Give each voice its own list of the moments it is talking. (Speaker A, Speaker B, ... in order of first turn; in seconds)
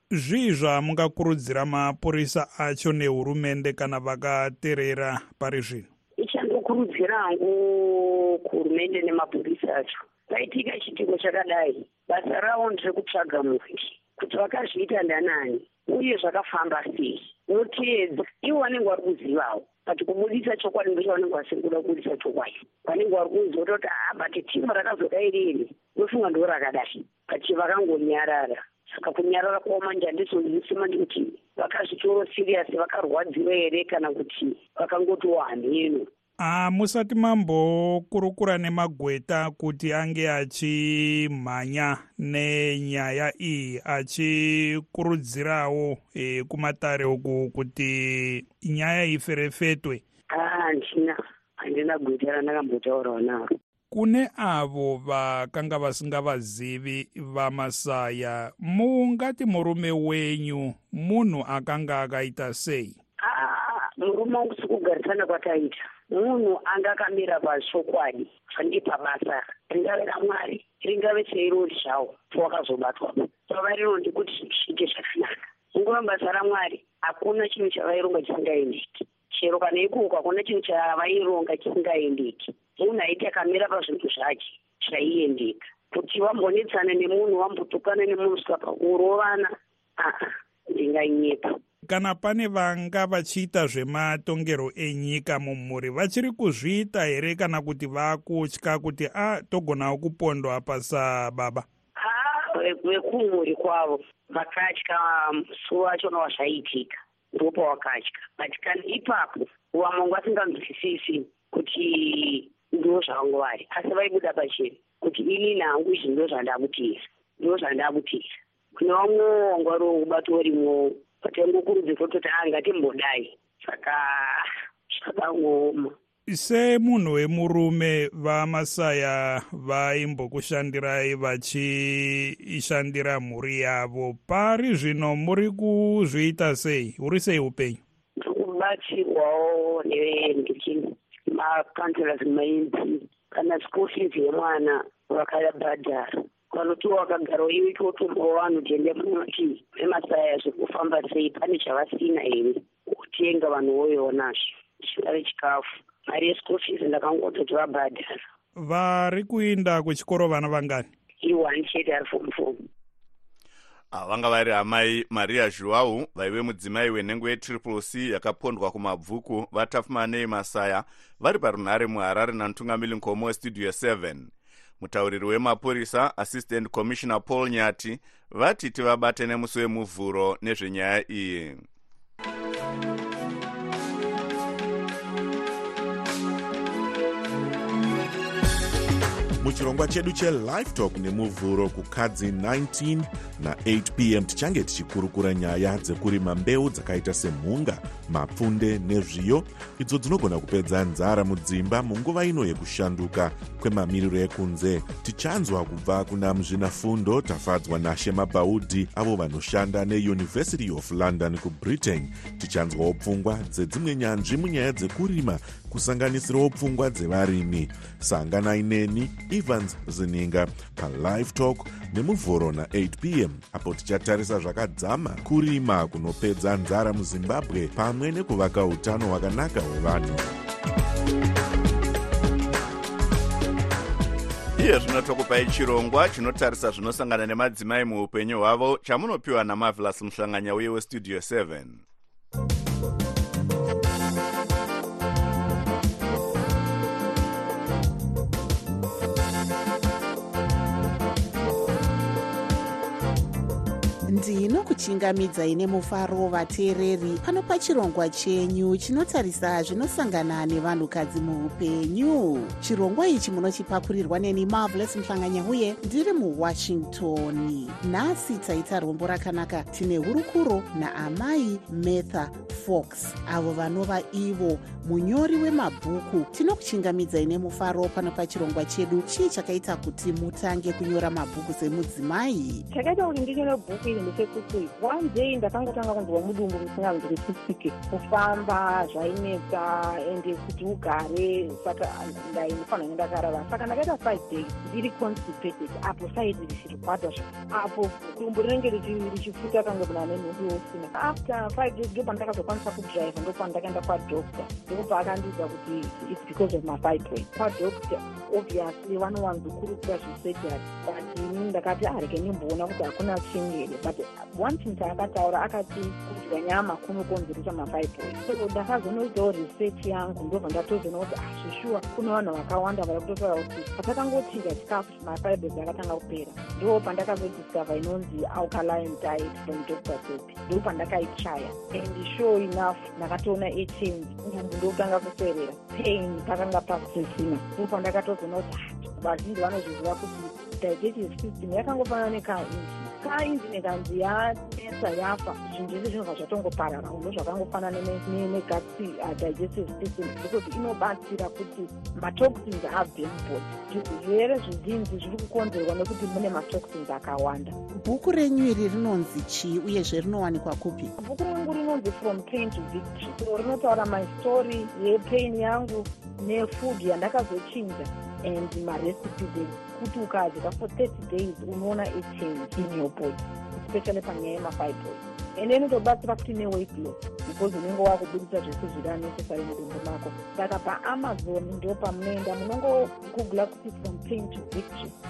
Speaker A: 0.1-5.9, 36.4-50.0, 53.9-63.0, 91.9-101.7, 126.3-137.8, 158.6-160.9
Speaker B: 6.2-36.1, 50.3-53.5, 63.2-91.6, 102.0-126.0, 138.2-158.2, 161.2-162.6
Speaker C: 163.9-181.6, 234.6-241.8
Speaker D: 189.4-230.3
Speaker E: 254.1-282.6, 357.7-360.9
Speaker F: 282.7-357.6, 361.0-384.9